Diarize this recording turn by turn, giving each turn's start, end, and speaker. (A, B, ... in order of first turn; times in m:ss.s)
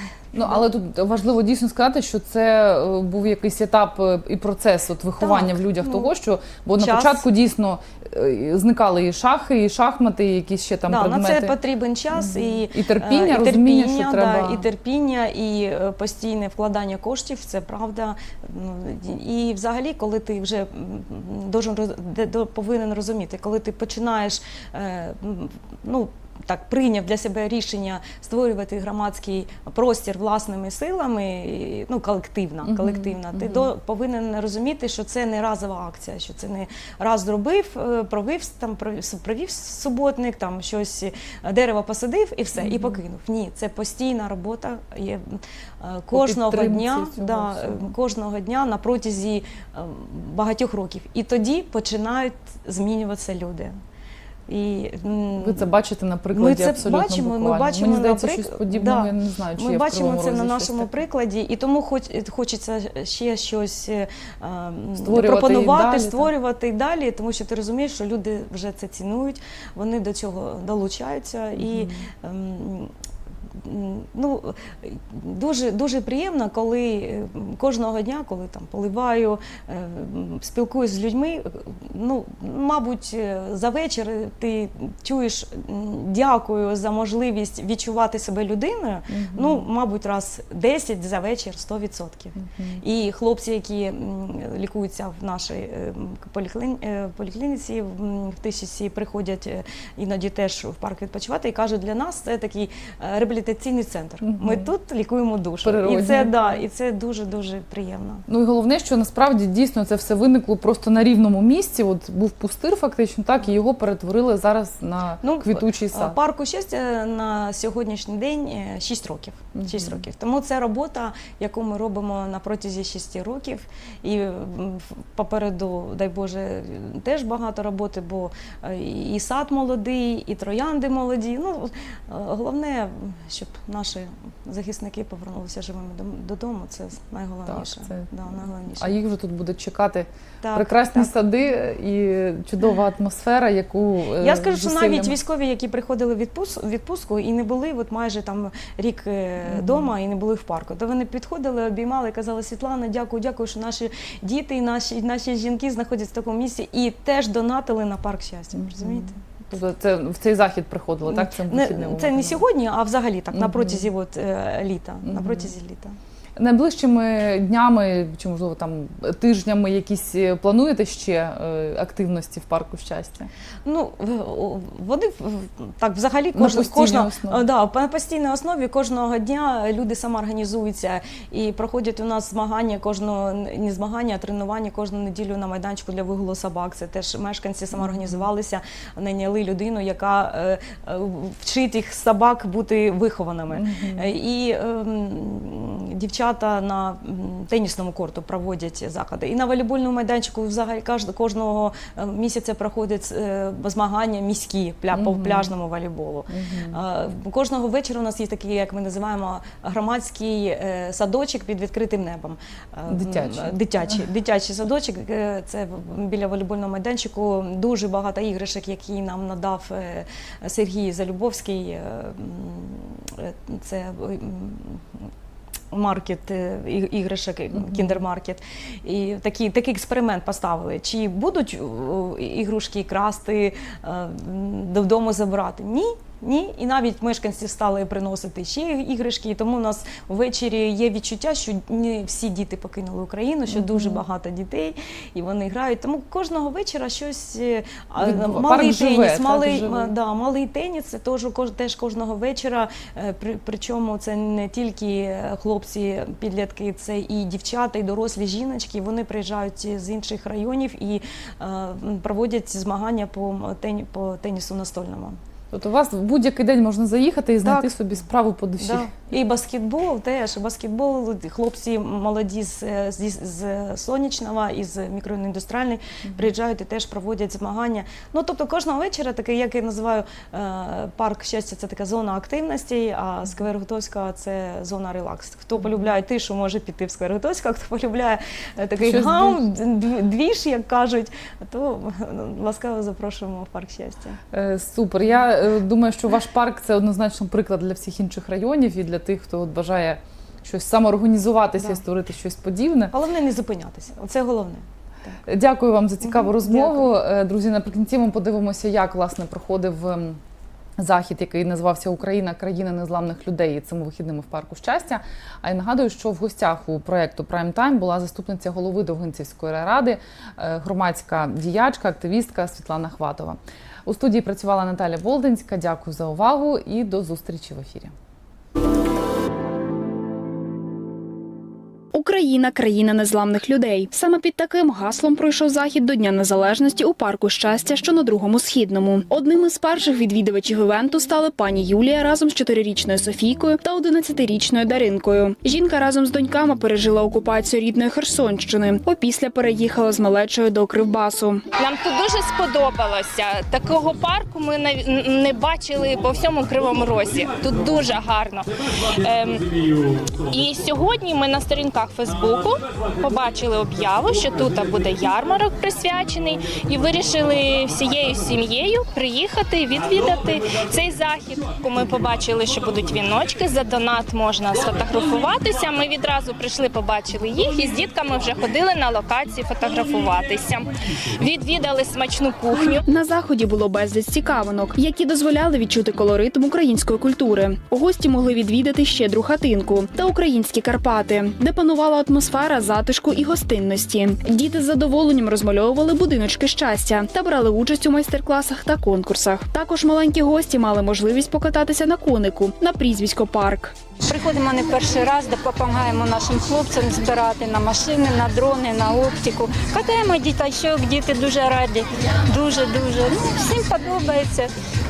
0:00.3-0:11.6 A
0:05.2-0:06.1 B
0:06.8-0:07.2 B
0:10.9-0:53.7 B
0:12.1-0:14.7 A
0:32.6-0:33.7 A
0:42.6-0:43.0 A
0:46.1-0:47.9 A
0:54.5-0:55.6 B
0:55.4-1:00.9 A
0:56.3-1:12.9 B
1:05.0-1:06.3 A
1:11.6-1:12.1 A
1:13.6-1:48.2 B
1:29.1-1:29.7 A
1:32.4-1:32.8 A
1:44.3-1:44.6 A
1:45.6-1:46.6 A
1:48.3-1:56.2 A
1:55.2-2:18.9 B
1:59.6-2:00.0 A
2:17.5-2:18.1 A
2:18.8-2:25.2 A
2:20.4-2:21.1 B
2:24.2-2:39.2 B
2:29.4-2:29.9 A
2:38.6-2:42.4 A
2:41.1-2:46.0 B
2:43.3-2:43.8 A
2:45.1-2:45.4 A
2:46.4-2:53.3 A
2:53.6-3:44.9 B
2:56.3-2:57.4 A
3:07.7-3:08.2 A
3:13.5-3:14.1 A
3:24.9-3:25.5 A
3:26.3-3:26.8 A
3:32.9-3:33.6 A
3:45.7-4:25.2 B
3:47.5-3:48.0 A
4:03.5-4:04.0 A
4:08.0-4:09.9 A
4:25.5-4:28.9 A
4:27.4-4:27.7 B
4:28.6-4:54.2 B
4:48.8-4:49.5 A
4:54.3-5:02.9 A
5:02.9-5:05.2 B
5:05.3-5:10.2 A
5:06.0-5:06.9 B
5:10.8-5:27.9 A
5:31.9-5:51.4 C
5:51.6-5:59.5 D
6:00.2-6:20.7 D
6:21.2-6:22.8 D
6:22.8-6:43.8 C
6:44.1-6:54.5 E